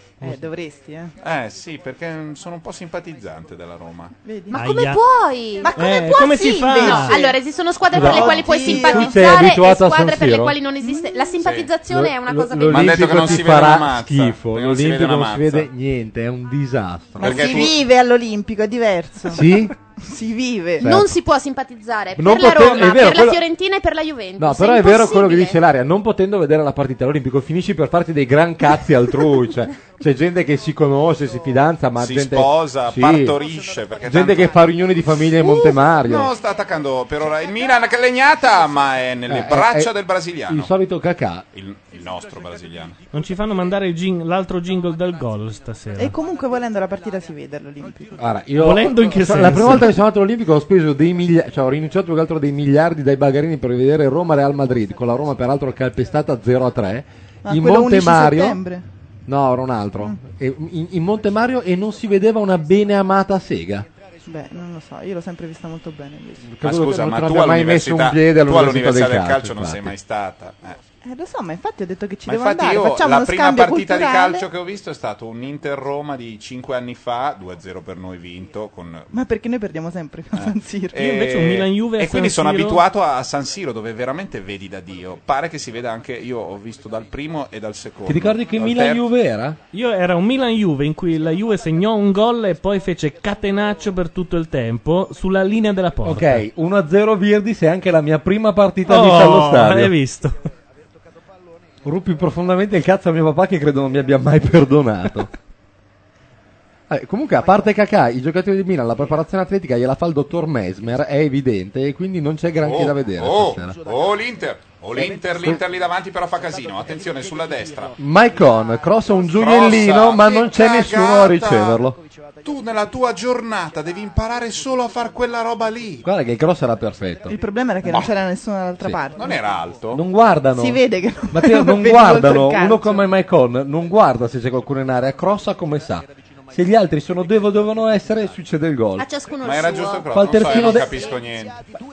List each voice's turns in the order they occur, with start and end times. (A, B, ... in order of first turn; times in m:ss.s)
0:00.2-0:01.1 A
0:01.2-0:04.1 B
0:04.2-0:04.6 A
0:04.5-0:13.4 C
0:04.5-0:05.0 D
0:05.6-0:09.3 A
0:05.8-0:07.2 D
0:07.9-0:10.6 E
0:10.8-0:11.3 A
0:11.4-0:11.7 B
0:11.9-0:17.7 E
0:12.7-0:15.7 B
0:17.2-0:17.7 B
0:17.2-0:20.9 A
0:19.3-0:19.7 E
0:20.8-0:21.1 E
0:20.8-0:25.6 C
0:22.2-0:23.4 E
0:24.4-0:33.4 E
0:32.0-0:34.6 B
0:34.0-0:36.3 E
0:35.4-0:40.7 B
0:39.3-0:39.9 E
0:40.5-0:41.4 E
0:41.5-0:43.0 B
0:43.1-0:46.1 D
0:46.0-0:48.2 A
0:48.2-0:58.6 E
0:48.6-0:50.0 D
0:57.4-0:58.8 A
0:59.3-1:03.8 E
1:04.2-1:06.5 A
1:06.4-1:09.9 E
1:06.6-1:10.8 B
1:11.0-1:14.4 A
1:12.2-1:19.1 B
1:19.1-1:21.0 A
1:20.3-1:29.0 B
1:21.0-1:22.8 D
1:28.0-1:29.6 E
1:29.7-1:36.4 D
1:36.0-1:39.9 E
1:38.9-1:40.4 D
1:41.8-1:45.3 E
1:46.9-1:53.8 E
1:52.6-1:58.0 B
1:55.3-1:55.6 E
1:58.0-2:02.0 E
1:59.3-2:01.8 B
2:02.4-2:06.0 B
2:06.0-2:07.3 E
2:07.3-2:09.4 A
2:09.2-2:10.0 B
2:09.9-2:19.0 E
2:10.5-2:13.0 A
2:19.0-2:21.1 C
2:19.4-2:21.6 B
2:20.1-2:21.0 E